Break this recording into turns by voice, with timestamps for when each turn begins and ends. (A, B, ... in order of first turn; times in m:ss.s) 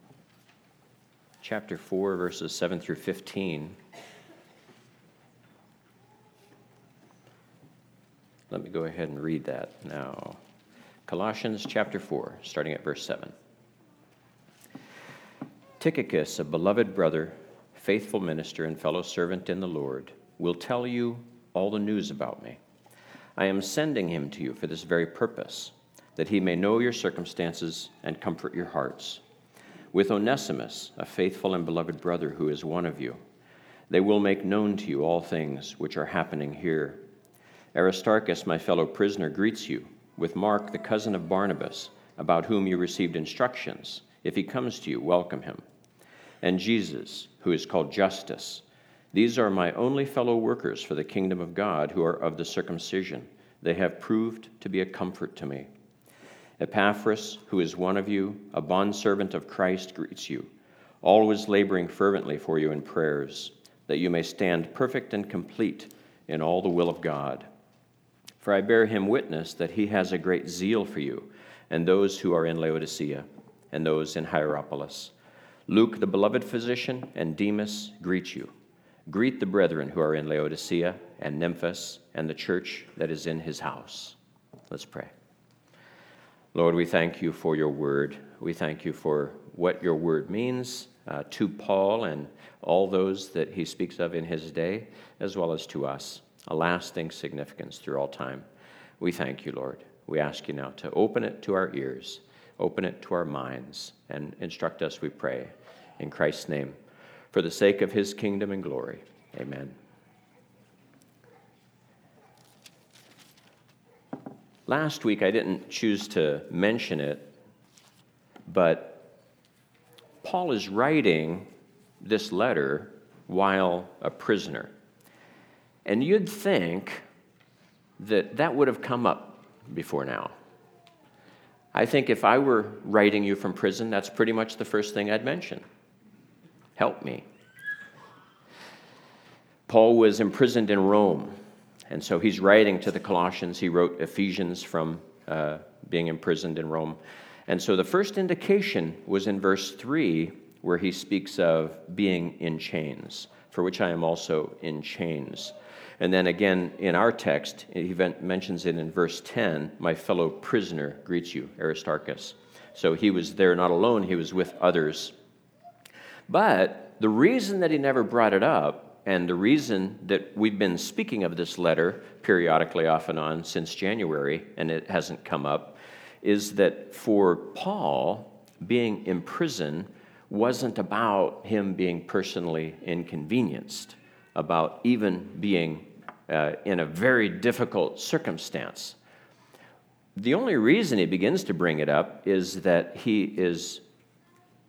0:01.4-0:03.8 A
0:08.5-0:10.4 A
0:11.1-0:13.3 A
0:15.8-0:22.6 A
0:23.4-0:29.2 A
0:29.9-0:33.2 A
0:33.9-0:37.0 A
0:37.7-0:45.6 A
0:46.4-0:55.7 A
0:56.6-1:00.5 A
1:01.0-1:07.5 A
1:08.4-1:15.1 A
1:15.7-1:18.5 A
1:19.1-1:24.2 A
1:24.7-1:25.1 A
1:26.5-1:38.4 A
1:39.0-1:46.8 A
1:47.3-1:49.8 A
1:54.7-1:57.3 A
1:58.5-1:59.1 A
2:00.2-2:01.5 A
2:02.0-2:04.7 A
2:05.8-2:07.0 A
2:08.0-2:10.3 A
2:11.7-2:15.6 A
2:16.8-2:17.2 A
2:19.7-2:21.4 A
2:21.9-2:45.2 A
2:46.3-3:09.0 A
3:10.2-3:13.8 A